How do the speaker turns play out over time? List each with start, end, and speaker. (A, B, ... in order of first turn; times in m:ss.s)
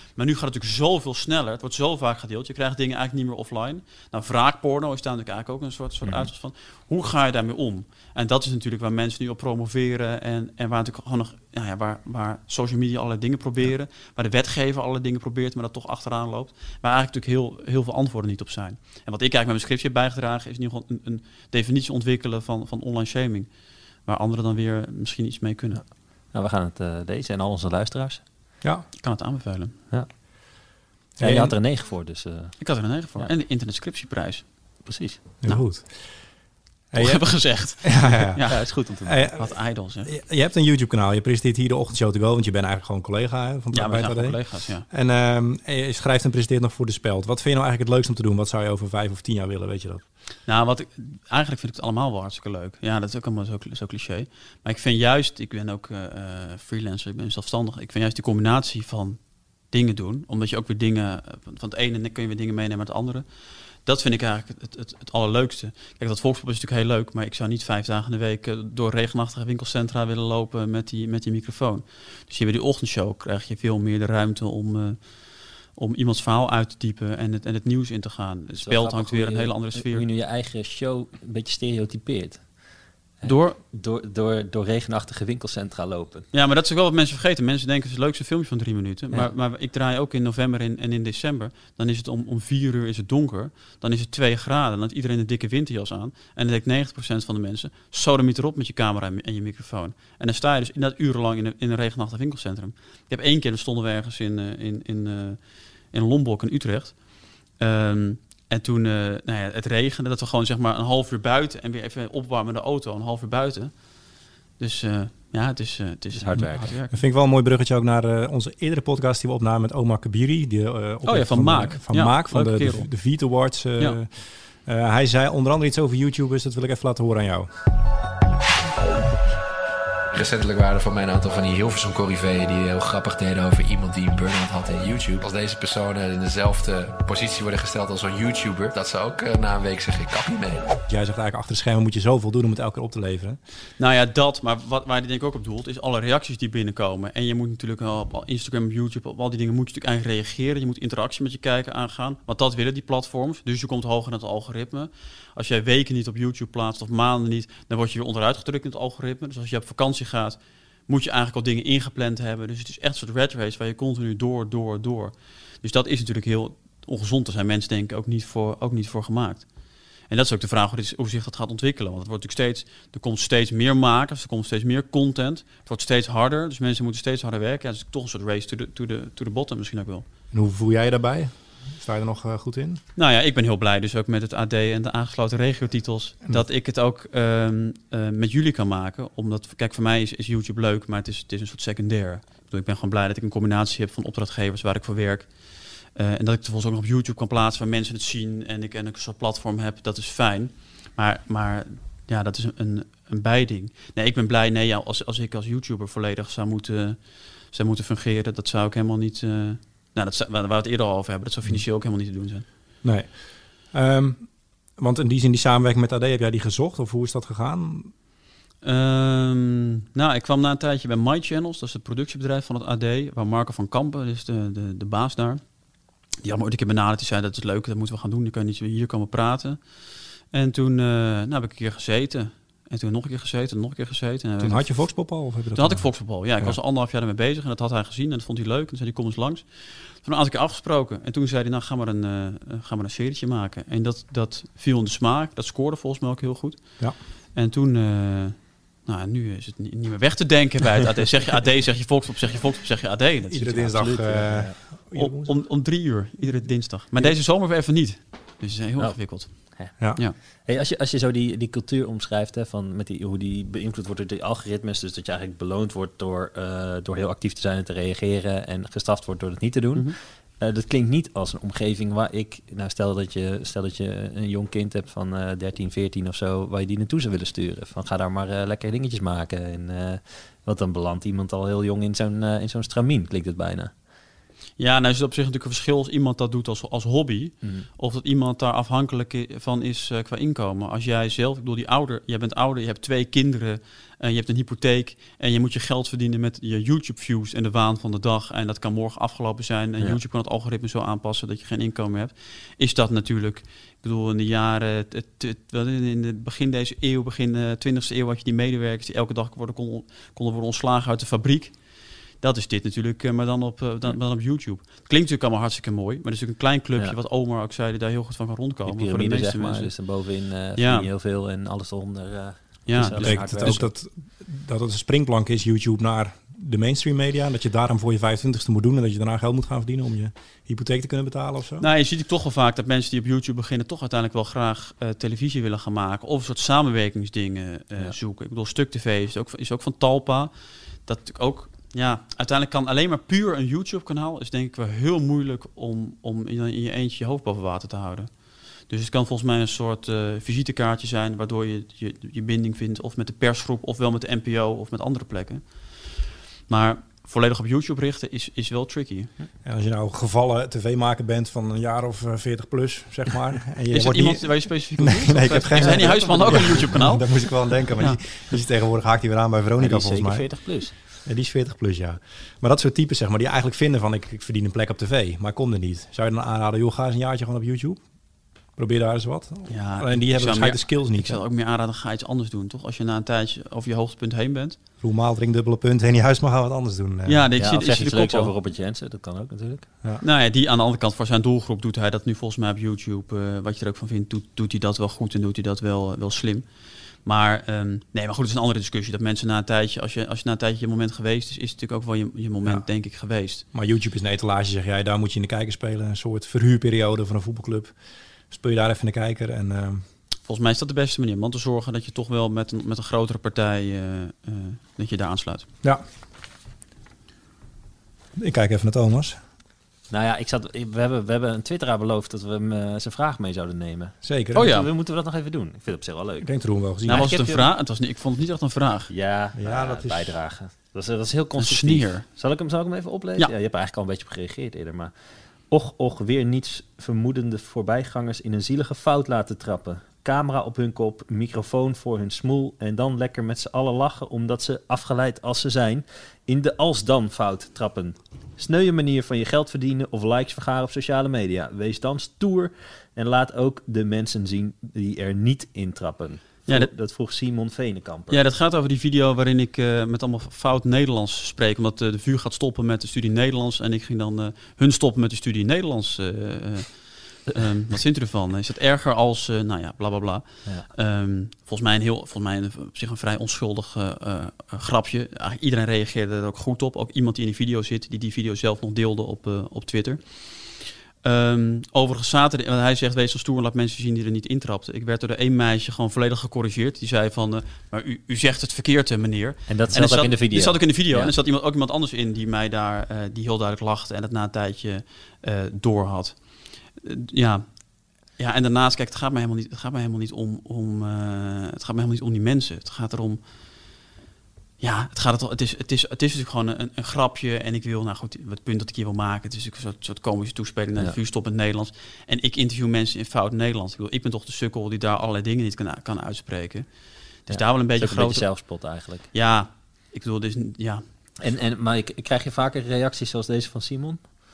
0:00.2-0:25.8 A
0:25.7-0:28.2 B
0:29.0-0:29.8 A
0:29.9-0:30.7 B
0:31.2-0:31.5 C
0:31.2-0:33.3 B
0:32.6-0:34.9 A
0:34.8-0:35.2 B
0:35.4-0:50.0 C
0:37.0-0:40.1 A
0:38.5-0:39.3 B
0:43.7-0:44.9 A
0:50.4-1:03.3 A
1:03.8-1:20.0 A
1:18.5-1:26.3 B
1:23.2-1:23.6 A
1:26.3-1:57.0 A
1:56.1-1:56.7 B
1:56.3-2:07.5 C
2:01.0-2:03.1 A
2:10.1-2:20.8 D
2:20.9-2:23.4 C
2:23.8-3:00.0 A
3:00.3-3:02.8 C
3:03.0-3:32.4 A
3:32.8-3:37.9 C
3:38.6-3:45.6 A
3:46.2-4:14.0 A
3:54.4-3:56.6 C
4:13.3-4:15.4 C
4:13.7-4:14.6 B
4:14.9-4:20.2 A
4:18.8-4:43.7 B
4:44.6-5:20.9 A
4:47.4-4:47.7 B
5:18.6-5:23.7 B
5:22.6-5:23.7 A
5:22.8-5:31.7 C
5:31.6-5:40.3 A
5:40.8-5:55.9 A
5:56.5-5:59.1 A
5:59.4-6:17.8 C
6:03.7-6:08.0 A
6:05.6-6:06.8 B
6:09.6-6:10.7 B
6:18.6-6:21.2 C
6:19.5-6:24.6 A
6:24.8-6:27.3 C
6:27.0-6:28.3 A
6:27.4-6:29.7 B
6:30.0-6:43.4 A
6:43.5-6:49.8 C
6:50.2-6:55.5 A
6:58.2-6:59.2 C
6:59.9-7:07.5 B
7:04.0-7:04.5 C
7:04.3-7:04.7 A
7:06.2-7:07.1 C
7:06.9-7:08.9 A
7:08.9-7:14.9 B
7:09.4-7:10.1 C
7:11.4-7:12.0 A
7:15.5-7:38.2 B
7:38.1-8:17.6 A
8:09.5-8:11.1 B
8:18.2-8:23.2 A
8:24.6-8:40.8 A
8:37.3-8:39.1 B
8:41.2-8:44.0 B